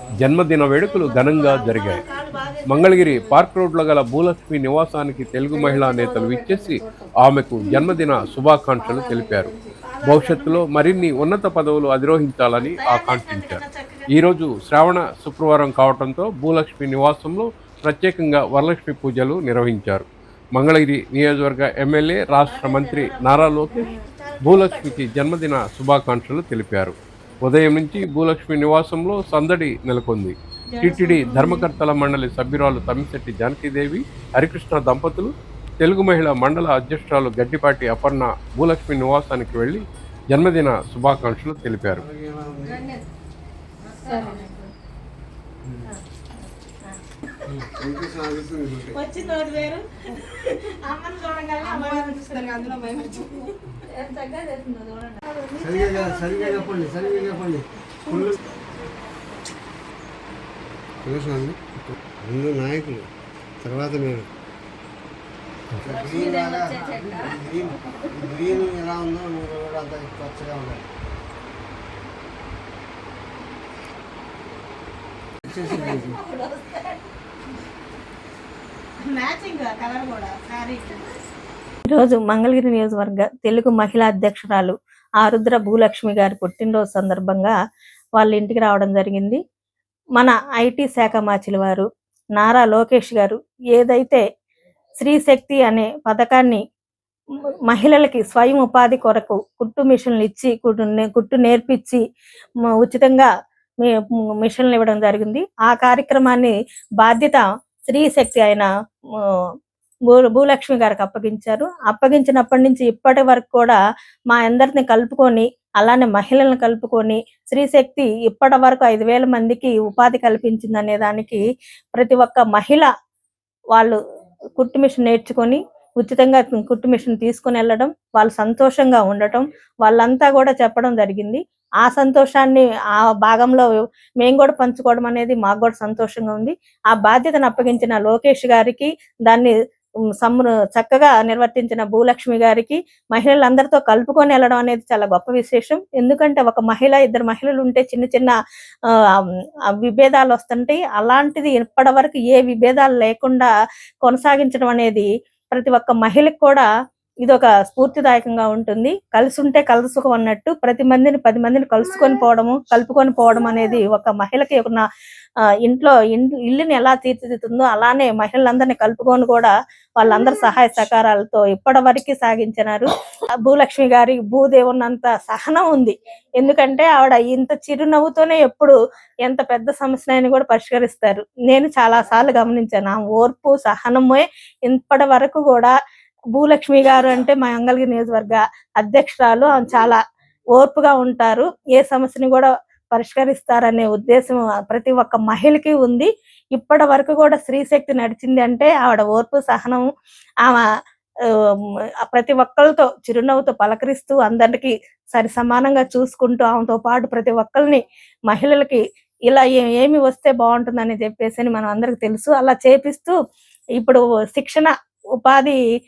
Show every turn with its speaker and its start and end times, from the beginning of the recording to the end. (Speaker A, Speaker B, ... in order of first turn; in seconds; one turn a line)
Speaker A: 0.2-2.0
Speaker B: 1.0-3.4
Speaker A: 2.6-42.0
Speaker B: 5.8-6.4
Speaker B: 8.9-11.2
Speaker B: 12.6-14.3
Speaker B: 22.4-25.0
Speaker B: 30.8-31.6
Speaker C: 41.9-42.9
Speaker B: 44.1-44.5
Speaker C: 45.6-45.9
Speaker C: 47.5-49.0
Speaker B: 49.0-49.8
Speaker B: 50.8-57.3
Speaker C: 55.6-58.4
Speaker C: 61.0-63.1
Speaker C: 63.6-64.3
Speaker C: 65.8-70.8
Speaker C: 75.5-76.2
Speaker B: 75.7-76.9
Speaker B: 79.1-81.1
Speaker D: 81.9-87.5
Speaker D: 88.2-89.4
Speaker D: 90.2-94.2
Speaker D: 95.0-96.6
Speaker D: 97.7-102.0
Speaker D: 102.8-103.3
Speaker D: 103.8-108.7
Speaker D: 110.1-113.8
Speaker D: 114.3-121.4
Speaker D: 122.0-122.9
Speaker D: 124.6-132.7
Speaker D: 133.2-133.7
Speaker D: 134.2-139.5
Speaker D: 140.2-148.4
Speaker D: 149.8-153.5
Speaker D: 154.1-156.7
Speaker D: 157.2-164.8
Speaker D: 165.6-172.9
Speaker D: 173.4-185.7
Speaker D: 186.4-190.0
Speaker D: 190.6-199.9
Speaker D: 202.1-213.2
Speaker D: 213.8-215.6